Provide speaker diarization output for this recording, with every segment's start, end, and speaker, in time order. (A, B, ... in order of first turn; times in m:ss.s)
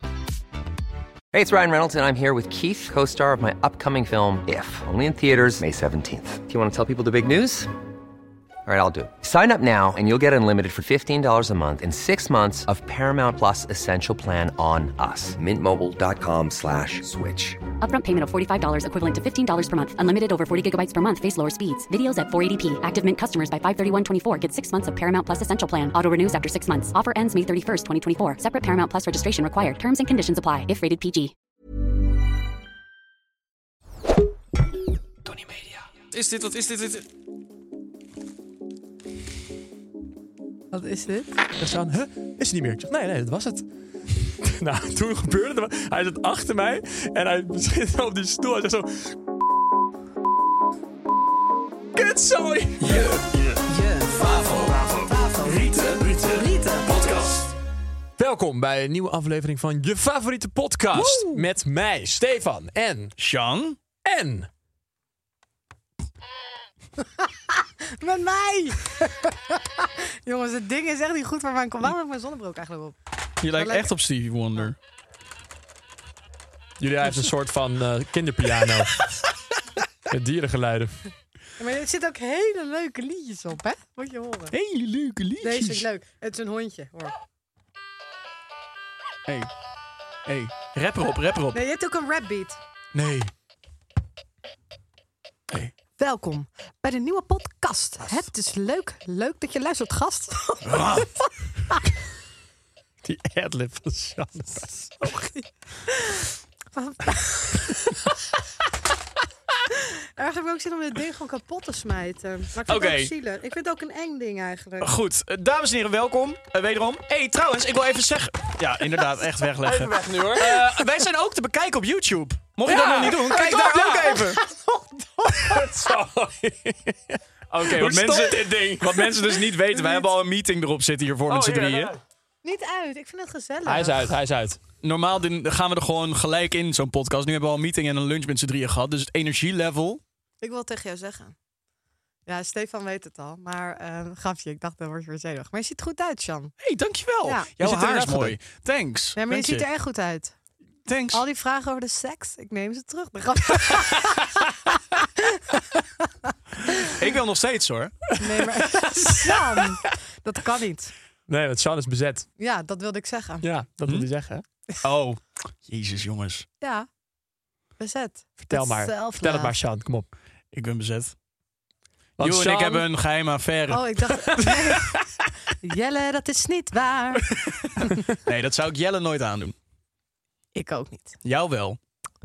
0:01.3-0:07.7 A
0:08.6-0:17.6 A
0:17.8-0:31.3 B
0:35.3-0:35.8 C
0:36.1-0:37.0 D
0:40.7-0:41.3 E
0:41.6-0:49.2 C
0:51.9-0:53.6 C
0:52.8-0:53.3 D
0:53.7-0:54.3 E
0:54.2-0:54.7 D
0:54.3-0:57.3 C
0:55.1-0:56.9 E
0:58.2-1:03.1 C
1:01.0-1:01.4 D
1:03.2-1:03.8 D
1:04.0-1:04.5 C
1:07.5-1:12.9 E
1:13.4-1:14.8 D
1:13.5-1:13.9 E
1:16.8-1:19.0 C
1:20.1-1:21.0 C
1:21.6-1:24.5 E
1:24.5-1:25.8 D
1:25.4-1:27.1 E
1:30.2-1:31.6 D
1:31.5-1:32.6 E
1:32.9-1:33.3 D
1:36.0-1:41.0 E
1:40.6-1:41.1 D
1:43.0-1:44.9 C
1:45.0-1:48.0 E
1:49.7-1:54.9 E
1:52.7-1:53.1 D
1:54.8-2:04.4 D
1:59.6-2:00.8 C
2:02.6-2:04.3 C
2:03.0-2:05.6 E
2:05.3-2:10.0 C
2:07.6-2:11.9 D
2:11.3-2:12.0 C
2:12.4-2:14.2 E
2:13.6-2:14.6 C
2:14.8-2:20.0 D
2:20.4-2:21.3 E
2:22.2-2:26.5 E
2:26.6-2:29.6 D
2:27.2-2:28.1 E
2:27.6-2:28.4 C
2:29.2-2:30.3 E
2:30.9-2:31.2 D
2:31.1-2:34.3 E
2:36.8-2:37.9 D
2:38.2-2:39.9 C
2:38.2-2:40.9 E
2:41.3-2:42.3 C
2:42.4-2:43.4 E
2:43.4-2:44.4 C
2:44.8-2:46.4 D
2:46.6-2:46.9 E
2:47.8-2:49.5 E
2:48.4-2:50.1 C
2:50.5-2:51.1 D
2:52.2-2:52.9 C
2:52.2-2:54.1 D
2:53.7-2:54.9 E
2:54.3-2:55.0 C
2:55.6-2:57.3 E
2:57.3-2:59.5 D
3:00.5-3:01.2 E
3:01.2-3:01.8 D